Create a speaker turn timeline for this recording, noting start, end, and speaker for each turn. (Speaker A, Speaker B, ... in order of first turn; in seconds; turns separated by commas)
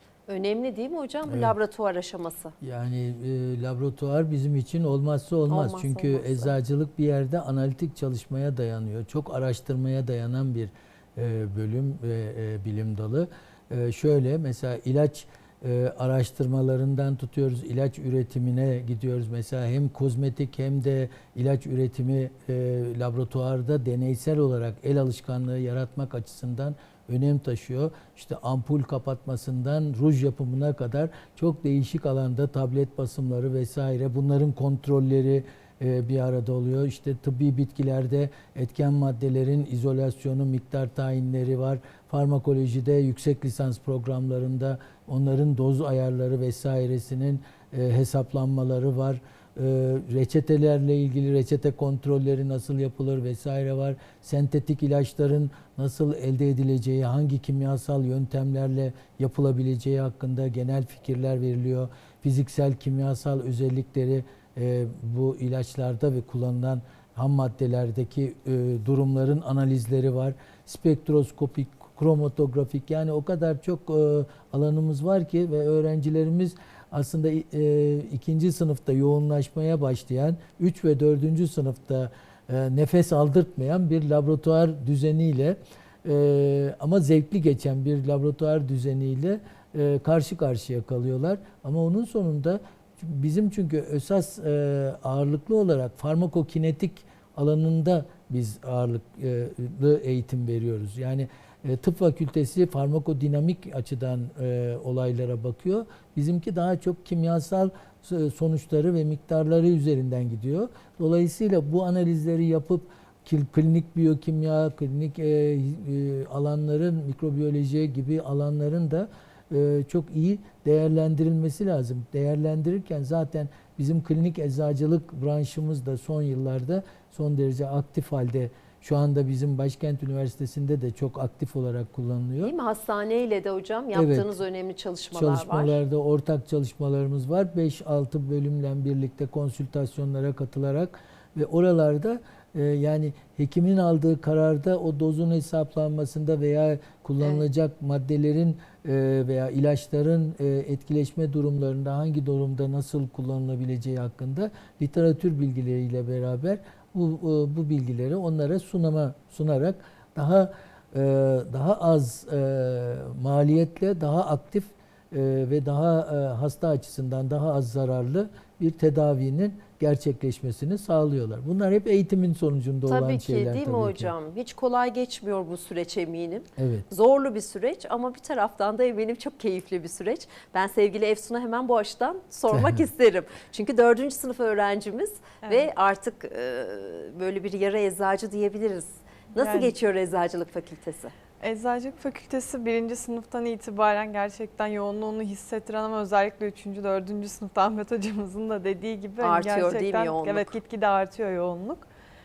Speaker A: 0.3-2.5, Speaker B: 1.3-1.5, Speaker B: 2.6-132.5, Speaker A: 5.5-6.5, Speaker A: 132.4-135.8, Speaker B: 133.9-134.3, Speaker B: 135.1-174.1, Speaker A: 172.8-191.1, Speaker B: 176.6-176.8, Speaker B: 182.5-182.9, Speaker C: 189.4-189.7, Speaker C: 191.4-201.9, Speaker A: 199.2-200.6